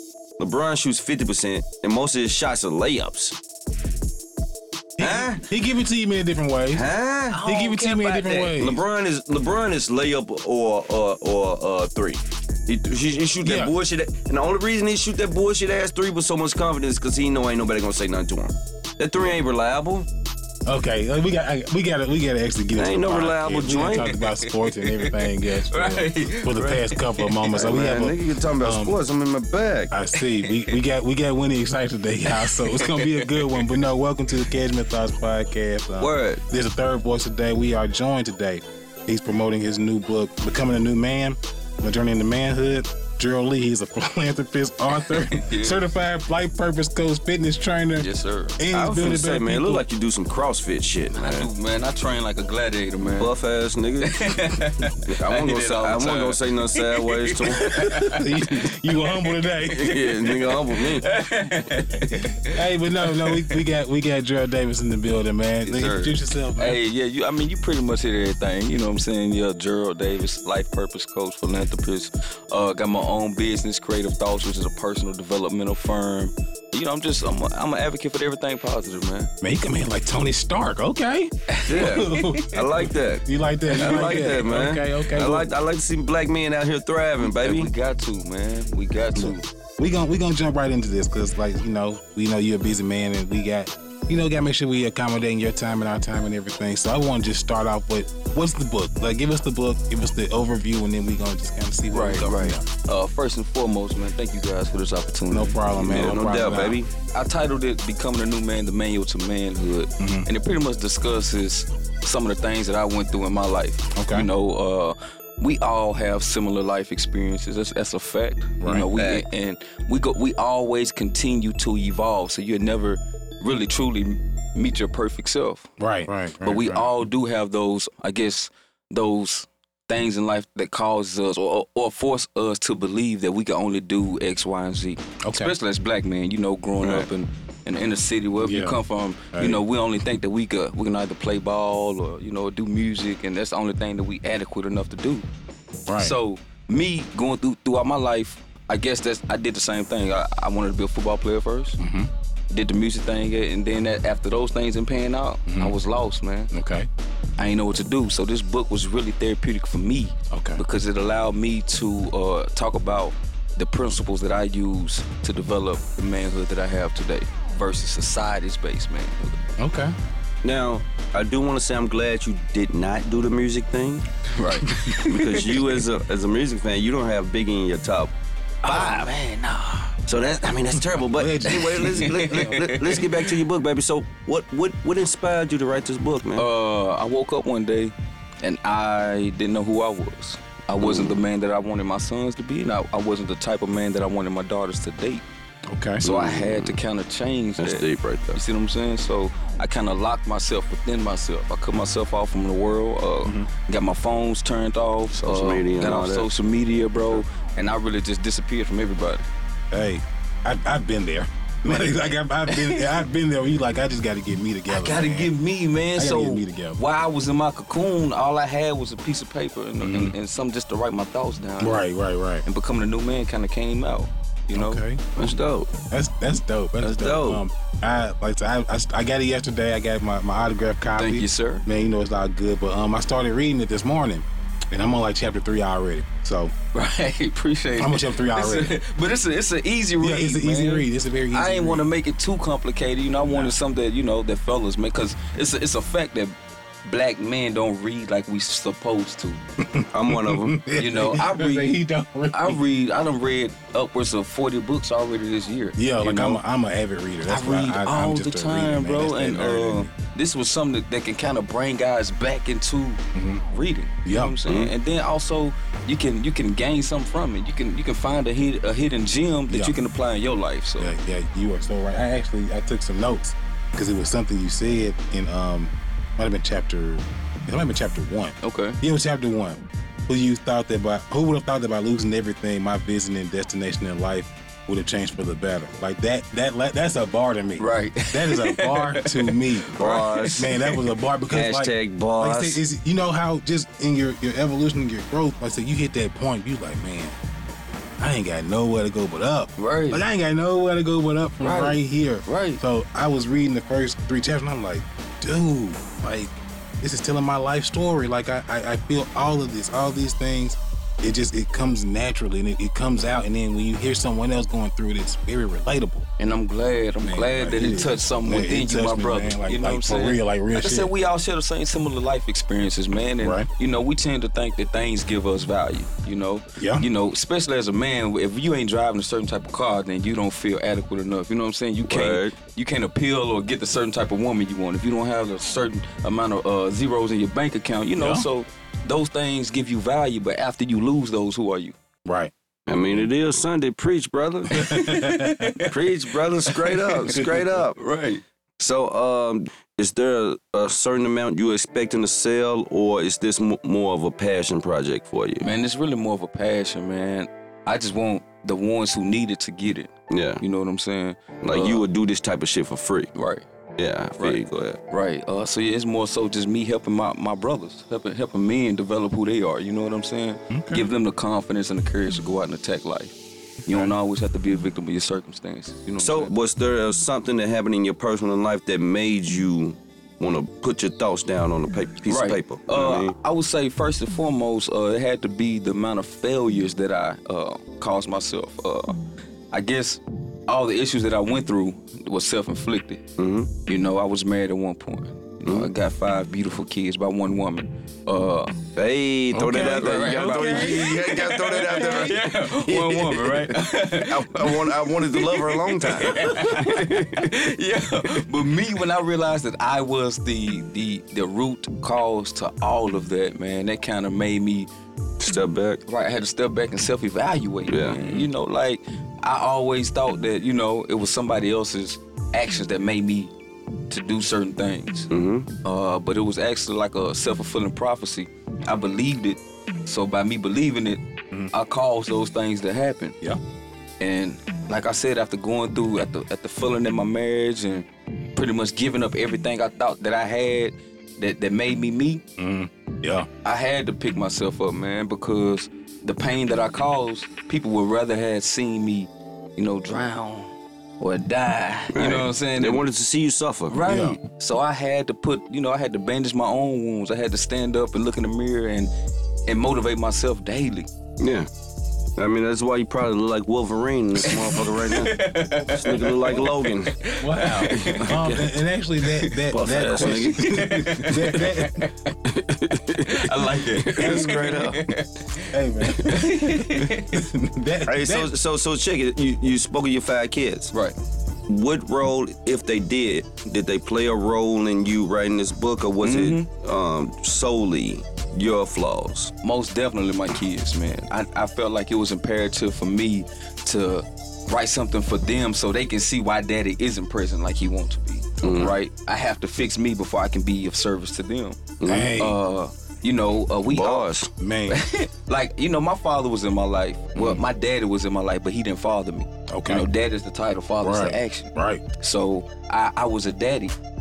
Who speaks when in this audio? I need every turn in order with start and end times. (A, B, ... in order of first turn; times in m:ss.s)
0:00.4-0:03.4 A
0:05.0-0:06.8 B
0:05.0-0:05.5 A
0:06.7-0:07.4 A
0:07.3-0:08.5 C
0:07.4-0:08.8 B
0:08.2-0:20.1 A
0:13.4-0:13.7 B
0:20.6-0:29.0 B
0:22.8-0:24.1 A
0:23.9-0:27.4 C
0:27.5-0:29.9 A
0:29.9-0:49.8 B
0:30.2-0:30.8 C
0:32.3-0:33.7 C
0:36.0-0:36.4 A
0:44.9-0:45.8 C
0:48.0-0:48.6 C
0:48.7-0:51.5 A
0:51.1-0:53.3 C
0:53.2-0:54.4 A
0:54.0-1:03.6 C
0:55.0-0:57.9 A
0:57.7-1:00.1 B
0:59.7-1:01.1 A
1:02.5-1:06.8 B
1:05.6-1:19.3 C
1:19.4-1:25.5 B
1:21.5-1:22.5 C
1:21.7-1:27.7 A
1:23.7-1:24.3 C
1:27.2-1:29.5 C
1:29.2-1:42.6 B
1:41.9-1:45.6 C
1:45.3-1:46.8 B
1:45.7-1:46.9 A
1:47.1-2:05.7 C
1:50.0-1:50.3 B
1:53.9-1:54.3 B
1:58.6-1:58.9 B
1:58.9-1:59.2 A
2:05.8-2:06.9 B
2:06.4-2:25.3 C
2:15.2-2:15.5 B
2:16.8-2:17.1 A
2:18.4-2:18.8 B
2:19.3-2:19.6 B
2:25.9-2:26.1 B
2:26.0-2:31.8 C
2:31.8-2:32.1 B
2:32.5-2:36.5 C
2:35.5-2:35.8 B
2:36.5-2:36.9 B
2:37.4-2:49.4 C
2:40.3-2:40.6 B
2:49.6-2:49.9 B
2:50.4-2:54.0 A
2:54.3-2:55.8 C
2:55.0-2:58.1 A
2:58.6-3:00.0 C
2:58.6-2:59.0 B
3:00.1-3:06.4 A
3:01.0-3:02.5 B
3:01.5-3:03.3 C
3:06.4-3:15.2 C
3:10.8-3:11.2 A
3:15.7-3:16.0 B
3:16.0-3:29.2 C
3:16.0-3:16.8 A
3:17.6-3:18.4 A
3:23.2-3:23.5 B
3:25.1-3:26.3 A
3:29.7-3:35.3 B
3:32.5-3:33.0 C
3:34.7-3:41.8 C
3:36.0-3:36.8 B
3:39.8-3:40.1 B
3:41.6-3:42.4 B
3:42.4-3:44.8 C
3:44.5-3:45.0 B
3:45.2-3:45.7 A
3:45.9-3:56.5 B
3:46.8-3:47.4 A
3:51.0-3:51.6 C
3:56.7-4:09.4 C
3:57.8-3:58.8 B
4:00.0-4:01.9 B
4:03.2-4:03.5 B
4:09.6-4:12.6 B
4:09.9-4:10.6 A
4:10.8-4:11.8 C
4:12.3-4:16.4 C
4:15.8-4:19.9 B
4:17.3-4:30.9 C
4:23.1-4:23.4 B
4:24.0-4:24.4 B
4:24.4-4:24.7 A
4:29.5-4:29.7 B
4:30.8-4:57.2 B
4:38.4-4:38.8 C
4:47.6-4:50.8 C
4:49.8-4:50.5 A
4:51.3-4:52.6 A
4:58.0-5:16.0 B
4:59.6-5:00.0 C
5:01.4-5:02.6 C
5:16.2-5:41.8 C
5:17.0-5:20.9 B
5:23.2-5:23.5 B
5:26.6-5:26.8 B
5:31.9-5:32.4 A
5:38.0-5:38.2 B
5:42.0-5:42.3 B
5:42.7-5:44.5 A
5:44.5-5:45.7 C
5:44.5-5:45.5 B
5:45.6-5:47.8 A
5:46.5-5:48.2 C
5:48.6-5:55.4 A
5:55.4-6:01.8 C
6:00.1-6:00.4 A
6:01.4-6:03.1 A
6:03.1-6:03.4 C
6:03.8-6:04.8 A
6:04.2-6:13.2 C
6:10.5-6:10.8 B
6:13.6-6:13.9 B
6:13.7-6:16.3 C
6:16.0-6:23.2 A
6:22.1-6:29.0 C
6:29.5-6:33.0 C
6:33.2-6:33.5 A
6:33.6-6:38.5 C
6:35.4-6:35.7 A
6:38.8-6:46.9 A
6:39.3-6:41.0 B
6:39.4-6:54.7 C
6:55.2-6:55.8 A
6:55.8-7:03.3 C
6:57.7-6:58.0 A
6:58.0-6:58.3 B
7:03.9-7:05.1 C
7:05.1-7:05.5 A
7:05.6-7:13.2 C
7:14.0-7:22.2 C
7:22.4-7:23.3 B
7:23.4-7:32.8 C
7:31.9-7:33.8 A
7:33.7-7:38.9 C
7:33.8-7:34.2 B
7:39.5-7:40.9 C
7:41.2-7:41.5 A
7:42.2-7:47.0 A
7:44.2-7:48.2 C
7:47.2-7:51.9 B
7:47.7-7:48.5 A
7:49.0-7:52.1 C
7:49.5-7:51.3 A
7:52.2-7:54.9 A
7:53.0-7:57.2 C
7:54.0-7:54.3 B
7:55.5-7:58.3 B
7:57.9-8:00.7 A
8:01.5-8:09.3 A
8:06.0-8:06.5 C
8:09.4-8:24.1 C
8:18.4-8:18.8 A
8:21.8-8:22.1 A
8:21.8-8:22.4 B
8:23.7-8:24.3 A
8:24.4-8:24.8 B
8:24.7-8:33.7 C
8:27.1-8:27.4 B
8:29.5-8:29.9 B
8:30.8-8:31.8 B